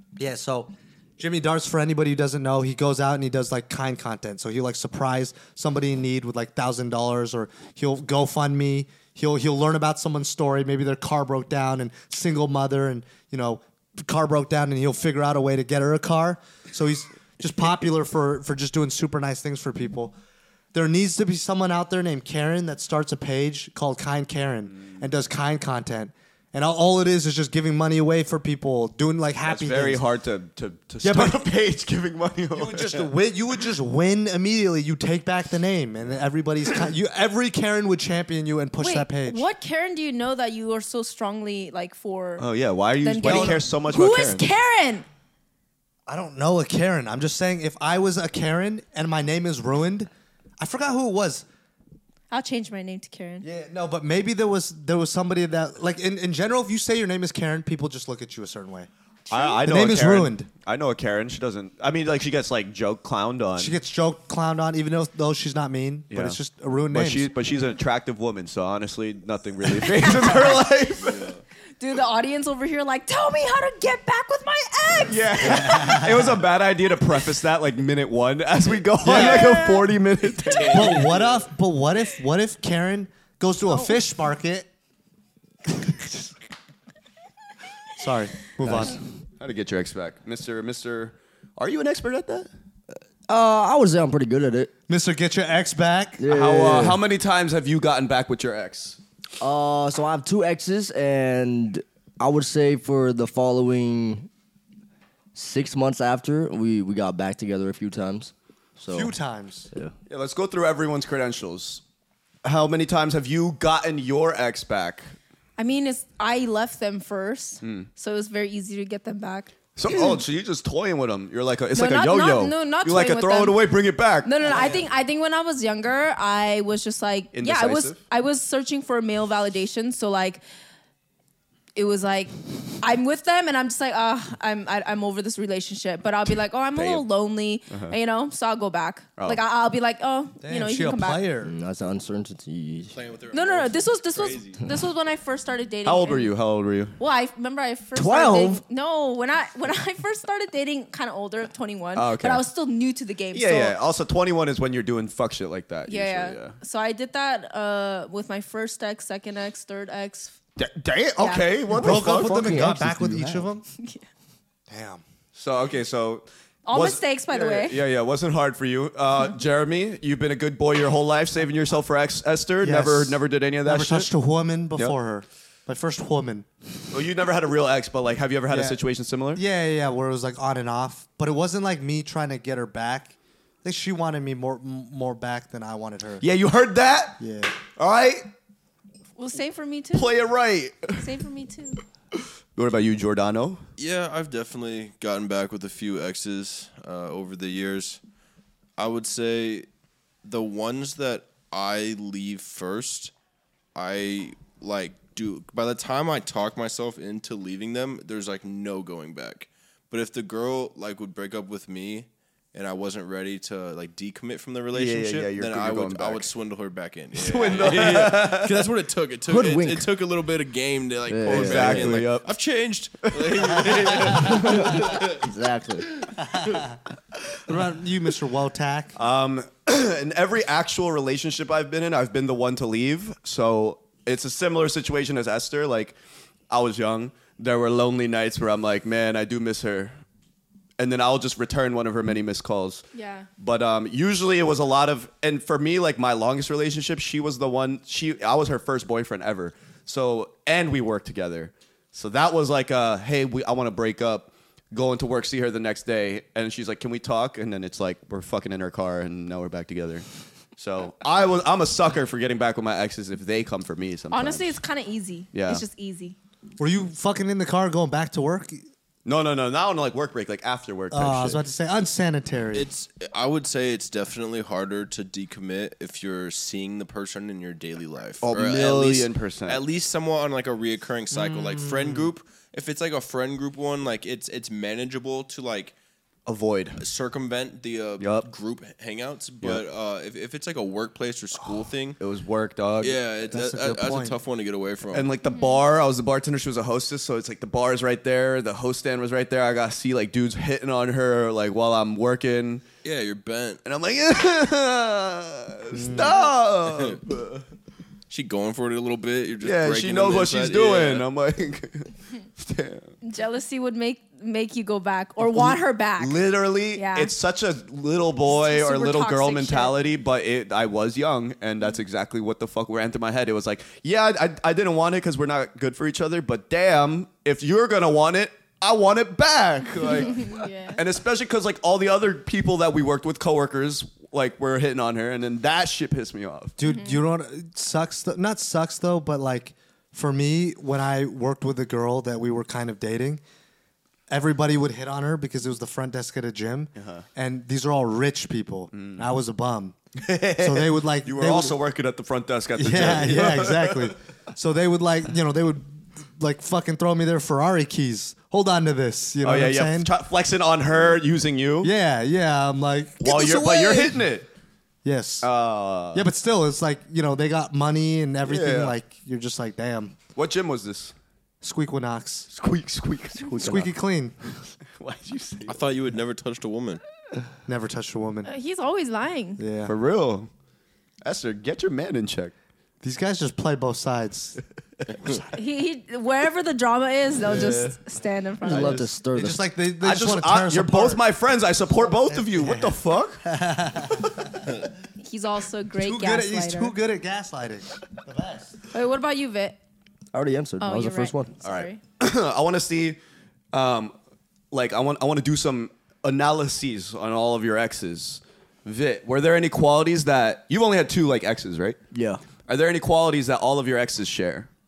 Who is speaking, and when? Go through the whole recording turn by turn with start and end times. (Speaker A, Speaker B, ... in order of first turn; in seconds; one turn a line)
Speaker A: 0.1-20.1
Speaker A: 20.7-30.0
Speaker B: 29.4-33.0
Speaker A: 31.0-31.5
Speaker A: 32.5-39.4
Speaker C: 38.8-42.5
Speaker B: 42.4-44.5
Speaker C: 43.0-45.0
Speaker A: 43.2-43.6
Speaker A: 46.1-51.5
Speaker C: 52.3-53.4
Speaker A: 53.4-58.9
Speaker B: 59.3-63.7
Speaker C: 59.3-59.6
Speaker A: 59.6-60.5
Speaker A: 63.6-67.3
Speaker B: 66.1-66.4
Speaker B: 66.9-71.3
Speaker C: 69.8-70.6
Speaker C: 71.8-76.0
Speaker B: 75.0-81.1
Speaker A: 75.5-76.4
Speaker A: 79.0-79.6
Speaker C: 79.1-79.9
Speaker C: 80.4-80.7
Speaker D: 80.5-81.4
Speaker A: 80.7-84.7
Speaker C: 83.7-84.0
Speaker A: 85.7-86.3
Speaker A: 88.0-89.0
Speaker B: 88.6-92.5
Speaker E: 93.3-94.7
Speaker A: 94.9-96.2
Speaker E: 96.2-97.0
Speaker B: 96.3-99.0
Speaker E: 99.4-104.3
Speaker E: 105.3-109.1
Speaker A: 108.9-109.7
Speaker B: 110.1-111.8
Speaker B: 112.4-115.1
Speaker C: 115.6-119.5
Speaker B: 117.6-117.9
Speaker B: 119.8-124.7
Speaker C: 121.7-130.4
Speaker B: 127.3-128.0
Speaker C: 131.7-141.2
Speaker B: 136.7-137.1
Speaker B: 137.7-137.9
Speaker A: 140.4-141.5
Speaker E: 141.4-143.0
Speaker D: 142.9-144.6
Speaker C: 143.3-146.3
Speaker B: 145.8-146.9
Speaker C: 147.0-153.8
Speaker E: 147.9-148.6
Speaker B: 151.9-152.4
Speaker B: 153.3-156.5
Speaker C: 155.9-160.3
Speaker B: 160.6-162.7
Speaker C: 161.2-161.5
Speaker A: 161.7-163.6
Speaker E: 161.7-163.5
Speaker C: 163.8-164.0
Speaker A: 164.7-165.0
Speaker B: 165.3-174.1
Speaker C: 166.7-167.8
Speaker A: 172.6-176.5
Speaker B: 176.9-179.4
Speaker A: 178.5-178.8
Speaker A: 179.3-186.2
Speaker B: 186.2-187.2
Speaker A: 187.2-187.5
Speaker B: 187.7-188.3
Speaker C: 189.2-190.1
Speaker B: 189.9-191.1
Speaker C: 191.0-191.8
Speaker B: 192.5-193.6
Speaker D: 193.8-198.0
Speaker D: 198.8-199.7
Speaker D: 200.2-203.1
Speaker D: 203.7-225.2
Speaker B: 214.7-216.3
Speaker B: 217.1-218.6
Speaker E: 219.3-219.9
Speaker E: 221.1-222.0
Speaker B: 221.2-222.3
Speaker B: 223.0-224.4
Speaker E: 224.1-225.9
Speaker A: 227.5-228.9
Speaker B: 228.9-235.9
Speaker B: 236.5-240.0
Speaker B: 240.8-242.8
Speaker C: 242.9-243.3
Speaker B: 243.4-264.5
Speaker C: 264.1-266.1
Speaker B: 265.3-265.6
Speaker A: 266.6-268.6
Speaker B: 269.0-271.4
Speaker A: 270.9-272.7
Speaker D: 272.5-285.7
Speaker B: 278.2-279.6
Speaker A: 281.1-282.1
Speaker B: 286.2-286.8
Speaker D: 286.8-292.0
Speaker B: 288.0-288.3
Speaker B: 292.0-293.0
Speaker D: 292.8-295.1
Speaker A: 293.3-294.1
Speaker B: 294.9-302.6
Speaker C: 295.2-295.6
Speaker D: 302.8-303.6
Speaker B: 303.6-307.4
Speaker A: 305.7-306.2
Speaker D: 308.1-311.1
Speaker B: 309.4-312.9
Speaker C: 313.0-317.1
Speaker B: 315.2-336.6
Speaker C: 318.2-319.8
Speaker C: 329.8-330.8
Speaker A: 336.6-343.2
Speaker C: 336.6-337.0
Speaker A: 344.1-349.8
Speaker B: 346.8-347.0
Speaker B: 348.7-349.1
Speaker B: 350.0-353.9
Speaker A: 350.4-351.6
Speaker A: 352.6-359.9
Speaker B: 359.2-361.7
Speaker A: 361.6-364.0
Speaker B: 363.0-364.3
Speaker A: 364.8-365.3
Speaker B: 365.2-366.1
Speaker A: 365.9-370.0
Speaker B: 368.2-368.8
Speaker B: 370.1-370.9
Speaker A: 371.4-372.3
Speaker B: 372.3-373.7
Speaker A: 373.4-374.1
Speaker B: 374.7-375.6
Speaker D: 375.4-376.8
Speaker A: 377.4-378.3
Speaker C: 378.2-379.4
Speaker A: 379.4-379.7
Speaker B: 379.6-380.3
Speaker B: 381.0-382.3
Speaker A: 382.8-384.4
Speaker C: 385.3-388.9
Speaker E: 388.4-389.4
Speaker A: 389.1-391.0
Speaker B: 389.8-393.2
Speaker A: 392.1-394.5
Speaker C: 395.0-396.7
Speaker A: 395.8-398.5
Speaker C: 398.7-399.6
Speaker E: 400.1-401.3
Speaker C: 400.6-401.8
Speaker B: 401.4-403.0
Speaker B: 403.5-403.9
Speaker B: 404.5-411.8
Speaker E: 411.9-412.2
Speaker B: 412.4-414.5